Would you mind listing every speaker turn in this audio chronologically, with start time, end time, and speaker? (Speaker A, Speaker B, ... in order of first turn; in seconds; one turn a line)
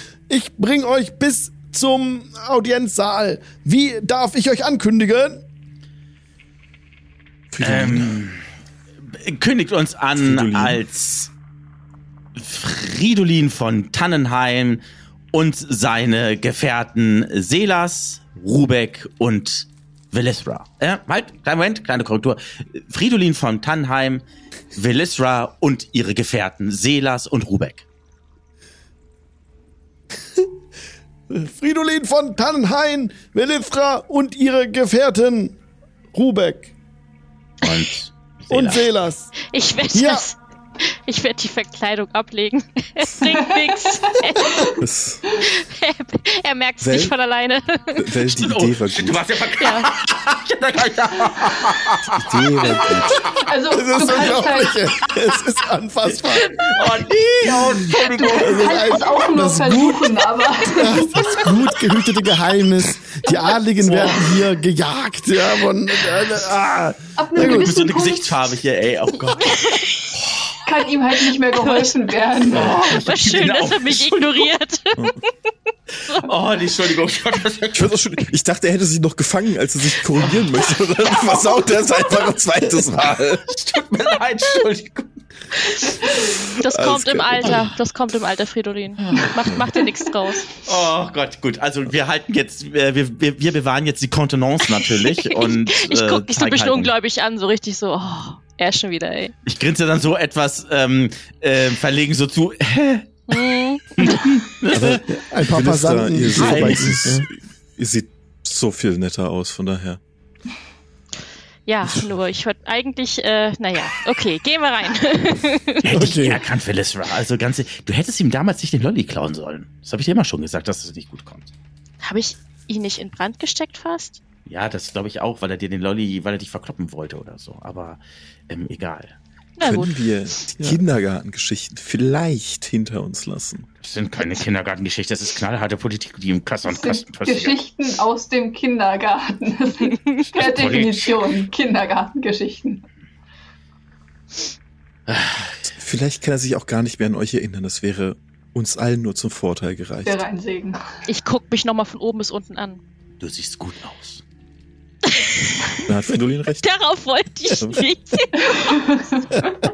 Speaker A: 0.3-5.4
Speaker B: 7.5-8.2
Speaker C: 7.6-8.4
Speaker C: 9.0-11.3
Speaker B: 10.2-10.8
Speaker C: 12.3-24.2
Speaker C: 24.7-27.8
Speaker A: 31.3-35.5
Speaker A: 36.1-36.7
Speaker C: 37.6-38.9
Speaker A: 38.5-39.3
Speaker D: 39.4-48.1
Speaker A: 39.9-40.2
Speaker B: 44.8-45.3
Speaker B: 46.8-47.1
Speaker B: 48.0-49.2
Speaker C: 48.2-53.4
Speaker D: 49.6-49.9
Speaker B: 52.2-53.2
Speaker E: 52.8-54.8
Speaker A: 53.7-56.6
Speaker C: 54.0-54.4
Speaker C: 55.0-55.4
Speaker C: 56.1-59.0
Speaker E: 57.5-61.5
Speaker A: 58.4-60.1
Speaker A: 60.8-67.8
Speaker C: 61.0-61.9
Speaker C: 63.8-64.5
Speaker E: 67.2-68.3
Speaker C: 67.3-69.6
Speaker D: 69.4-70.1
Speaker C: 70.1-70.5
Speaker E: 70.7-72.7
Speaker D: 71.5-71.9
Speaker C: 72.5-74.5
Speaker D: 72.5-75.3
Speaker C: 76.1-77.9
Speaker B: 77.7-83.5
Speaker C: 81.0-85.1
Speaker D: 86.5-90.5
Speaker B: 86.6-87.7
Speaker C: 89.1-89.4
Speaker C: 90.6-96.9
Speaker D: 94.9-99.3
Speaker C: 99.5-103.4
Speaker D: 103.3-104.2
Speaker C: 104.0-105.0
Speaker B: 104.7-110.0
Speaker A: 105.1-107.3
Speaker C: 106.3-107.0
Speaker D: 111.7-116.0
Speaker C: 115.8-121.5
Speaker A: 115.9-116.4
Speaker D: 122.0-124.2
Speaker C: 124.5-129.2
Speaker D: 129.6-130.0
Speaker B: 129.6-133.7
Speaker C: 133.8-137.6
Speaker E: 136.7-142.8
Speaker C: 140.3-141.2
Speaker C: 145.1-145.6
Speaker B: 145.7-150.2
Speaker E: 150.0-151.0
Speaker D: 151.1-152.8
Speaker C: 153.2-154.2
Speaker D: 155.1-155.8
Speaker B: 155.8-156.7
Speaker D: 156.6-158.7
Speaker B: 157.5-157.8
Speaker E: 158.4-159.4